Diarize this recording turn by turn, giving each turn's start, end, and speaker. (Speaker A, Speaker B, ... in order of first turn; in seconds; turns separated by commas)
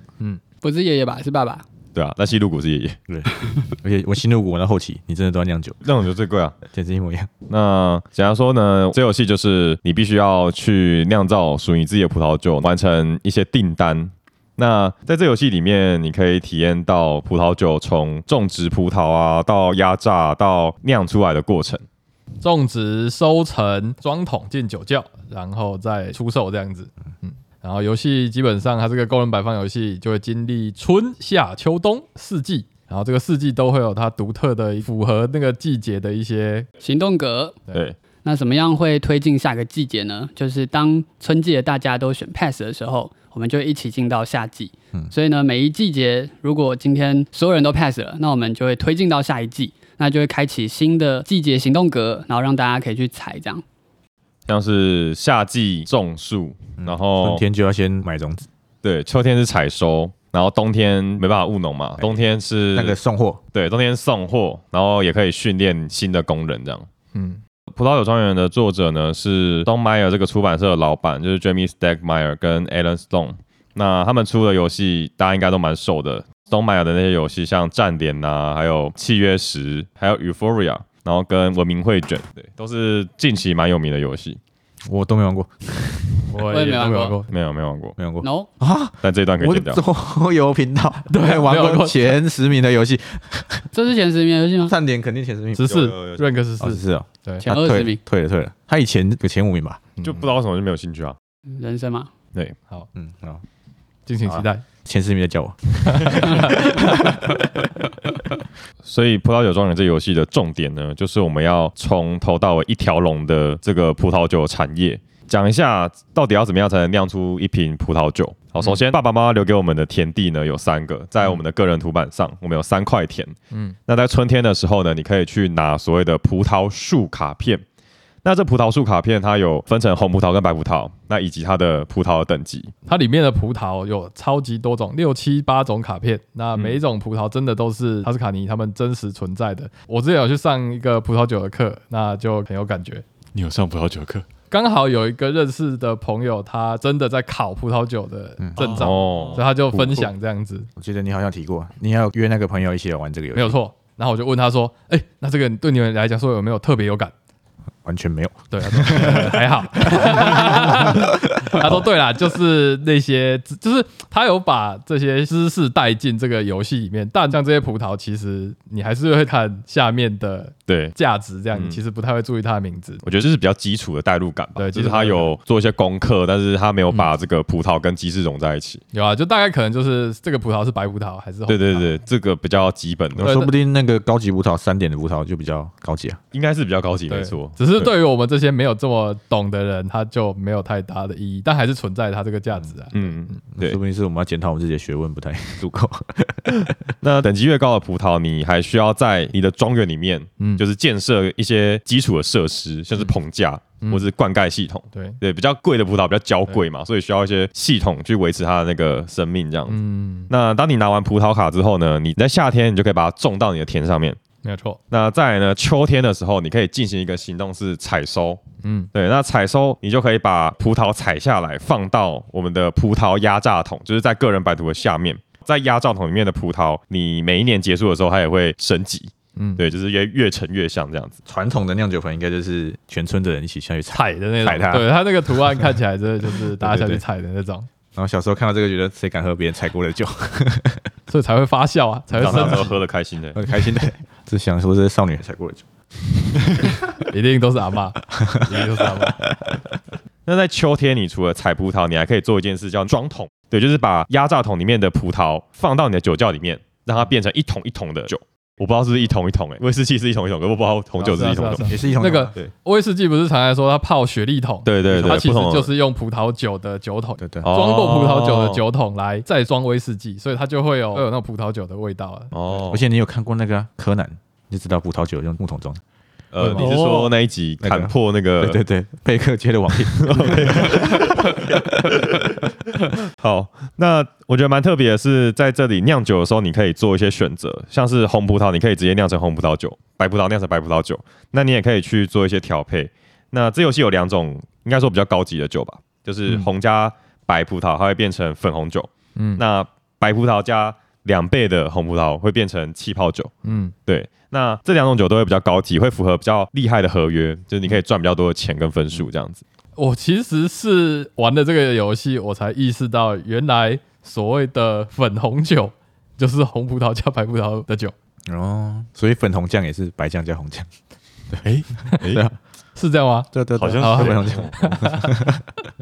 Speaker A: 0.6-1.6, Speaker B: 1.9-3.0, Speaker C: 3.1-5.8, Speaker B: 5.8-6.5, Speaker C: 6.7-7.3, Speaker B: 7.5-21.8, Speaker D: 22.4-36.7, Speaker A: 36.8-37.6, Speaker A: 38.2-53.6, Speaker B: 54.5-57.4, Speaker C: 56.8-58.5, Speaker B: 58.8-63.0, Speaker C: 62.7-63.4, Speaker B: 63.5-66.9, Speaker D: 67.1-67.4, Speaker B: 67.7-84.4, Speaker C: 84.9-86.4, Speaker D: 86.3-87.3, Speaker A: 86.5-87.2, Speaker B: 87.3-88.0, Speaker C: 88.0-93.7, Speaker A: 88.2-88.5, Speaker B: 89.0-89.8, Speaker D: 91.1-92.0, Speaker A: 93.7-94.7, Speaker C: 94.7-95.6, Speaker D: 95.5-97.5, Speaker B: 95.7-96.2, Speaker C: 96.6-99.8, Speaker A: 97.4-98.0, Speaker B: 100.0-101.2, Speaker A: 101.5-102.1, Speaker C: 102.9-103.4, Speaker D: 104.1-104.7, Speaker C: 104.2-107.4, Speaker D: 105.9-107.3, Speaker B: 108.8-123.3, Speaker D: 123.5-123.8, Speaker B: 123.9-127.6, Speaker B: 128.2-132.7, Speaker D: 132.8-143.0, Speaker E: 143.3-144.2, Speaker D: 144.5-150.7, Speaker E: 148.7-149.4, Speaker B: 148.8-150.1, Speaker C: 150.8-153.6, Speaker D: 153.3-157.1, Speaker C: 157.8-161.5, Speaker D: 158.5-173.1, Speaker B: 170.7-170.9, Speaker B: 171.5-171.8, Speaker B: 173.0-178.8, Speaker D: 174.6-175.3, Speaker D: 178.9-181.9, Speaker B: 181.5-183.4, Speaker C: 183.2-186.2, Speaker D: 183.2-183.5, Speaker B: 186.3-187.9, Speaker D: 187.1-193.4, Speaker B: 192.9-193.8, Speaker C: 193.6-196.7, Speaker B: 197.0-214.2, Speaker D: 203.8-204.1, Speaker D: 209.7-210.3, Speaker D: 214.4-214.8, Speaker B: 214.9-218.4, Speaker D: 218.6-218.9, Speaker B: 218.9-231.2, Speaker D: 229.4-229.6, Speaker C: 231.3-235.6, Speaker D: 233.9-237.7, Speaker C: 237.9-240.8, Speaker D: 241.1-242.8, Speaker B: 242.2-243.4, Speaker C: 243.3-245.6, Speaker D: 247.1-249.3, Speaker C: 248.1-249.8, Speaker B: 250.2-261.7, Speaker D: 261.0-272.5, Speaker C: 261.6-262.3, Speaker B: 264.6-265.7, Speaker C: 267.2-267.5, Speaker B: 267.4-268.6, Speaker B: 272.3-272.8, Speaker C: 272.7-275.8, Speaker B: 276.3-278.6, Speaker D: 276.4-276.9, Speaker C: 277.6-281.7, Speaker B: 279.9-303.3, Speaker D: 299.2-299.4, Speaker D: 303.4-303.7, Speaker B: 303.9-309.4, Speaker D: 309.8-317.9, Speaker C: 318.3-320.7, Speaker C: 321.3-322.4, Speaker E: 321.4-321.8, Speaker D: 321.8-322.2, Speaker D: 322.8-325.2, Speaker C: 323.3-325.4, Speaker E: 323.6-324.5